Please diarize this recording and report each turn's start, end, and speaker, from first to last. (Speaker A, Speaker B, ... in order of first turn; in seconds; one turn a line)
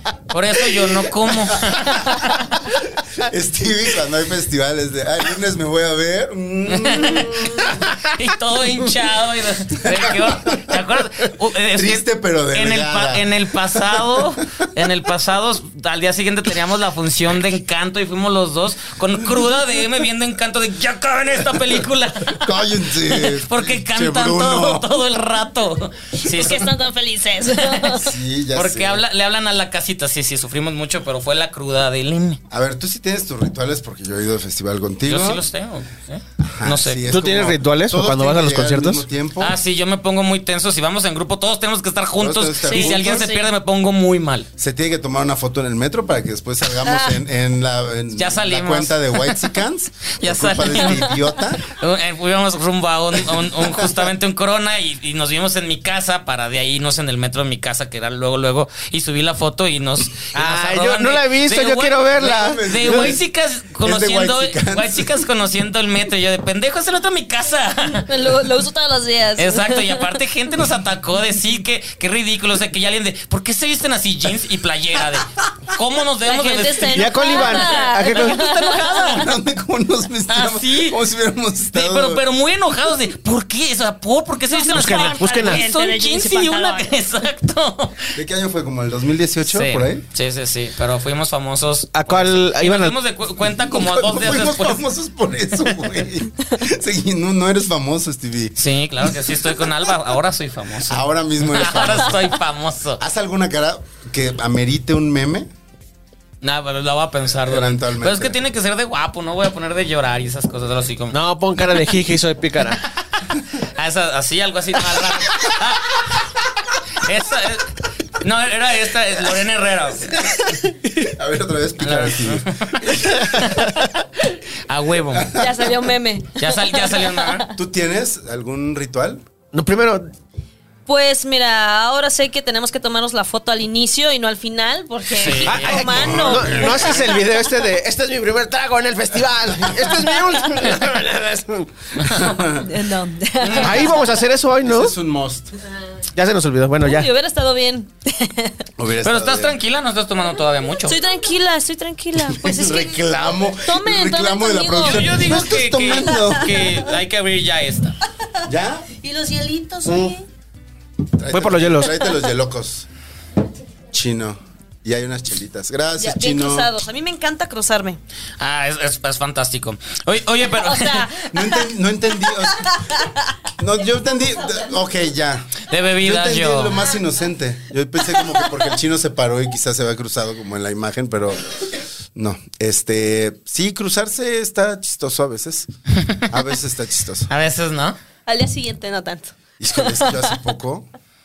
Speaker A: 0.3-2.6
Speaker B: 0.6-7.9
Speaker A: 6.7-26.7
Speaker B: 9.8-10.8
Speaker B: 11.7-14.3
Speaker B: 22.3-25.0
Speaker C: 26.2-28.1
Speaker A: 27.6-28.0
Speaker B: 27.9-29.0
Speaker A: 28.5-32.4
Speaker B: 32.5-35.4
Speaker A: 35.0-37.0
Speaker B: 36.4-39.6
Speaker D: 37.1-39.0
Speaker A: 39.4-44.5
Speaker B: 42.2-43.3
Speaker C: 42.7-43.5
Speaker B: 44.6-51.7
Speaker A: 48.1-49.4
Speaker A: 50.2-68.1
Speaker B: 53.2-54.0
Speaker D: 60.3-63.1
Speaker B: 62.1-63.2
Speaker B: 63.8-65.2
Speaker C: 67.9-70.2
Speaker A: 69.4-79.2
Speaker C: 76.2-79.2
Speaker D: 76.9-78.5
Speaker B: 78.9-82.2
Speaker A: 80.3-81.0
Speaker A: 81.7-88.2
Speaker C: 84.5-86.9
Speaker D: 84.7-85.6
Speaker B: 88.1-90.0
Speaker A: 89.4-94.8
Speaker D: 91.9-92.9
Speaker B: 93.4-98.6
Speaker A: 98.6-103.0
Speaker B: 99.1-99.3
Speaker B: 100.9-102.3
Speaker B: 103.0-105.5
Speaker A: 106.4-111.2
Speaker B: 107.4-108.4
Speaker D: 111.1-112.8
Speaker A: 113.5-116.4
Speaker A: 116.9-120.2
Speaker B: 120.0-123.6
Speaker D: 120.5-120.9
Speaker A: 121.8-123.9
Speaker D: 123.2-124.0
Speaker A: 124.7-125.3
Speaker B: 125.1-125.9
Speaker C: 125.3-127.5
Speaker A: 126.4-127.5
Speaker B: 127.5-129.2
Speaker D: 129.5-130.1
Speaker C: 130.9-137.2
Speaker A: 135.1-136.0
Speaker D: 135.4-141.7
Speaker B: 135.9-136.9
Speaker A: 142.0-142.4
Speaker B: 142.0-142.7
Speaker C: 142.5-144.0
Speaker A: 143.4-143.9
Speaker D: 143.6-144.9
Speaker B: 144.6-145.5
Speaker D: 146.1-147.1
Speaker C: 146.8-148.6
Speaker B: 148.8-149.6
Speaker A: 149.0-151.0
Speaker C: 150.8-155.2
Speaker B: 152.2-156.7
Speaker A: 154.8-157.9
Speaker B: 158.4-158.8
Speaker C: 159.0-160.2
Speaker D: 159.8-160.1
Speaker B: 161.1-162.9
Speaker D: 161.3-161.9
Speaker B: 163.9-166.7
Speaker C: 166.0-168.0
Speaker A: 168.4-171.1
Speaker C: 170.5-171.7
Speaker B: 171.2-172.8
Speaker C: 172.2-173.3
Speaker B: 173.6-185.7
Speaker A: 175.7-176.8
Speaker B: 186.3-187.3
Speaker A: 187.3-187.9
Speaker C: 188.2-190.2
Speaker B: 189.6-190.9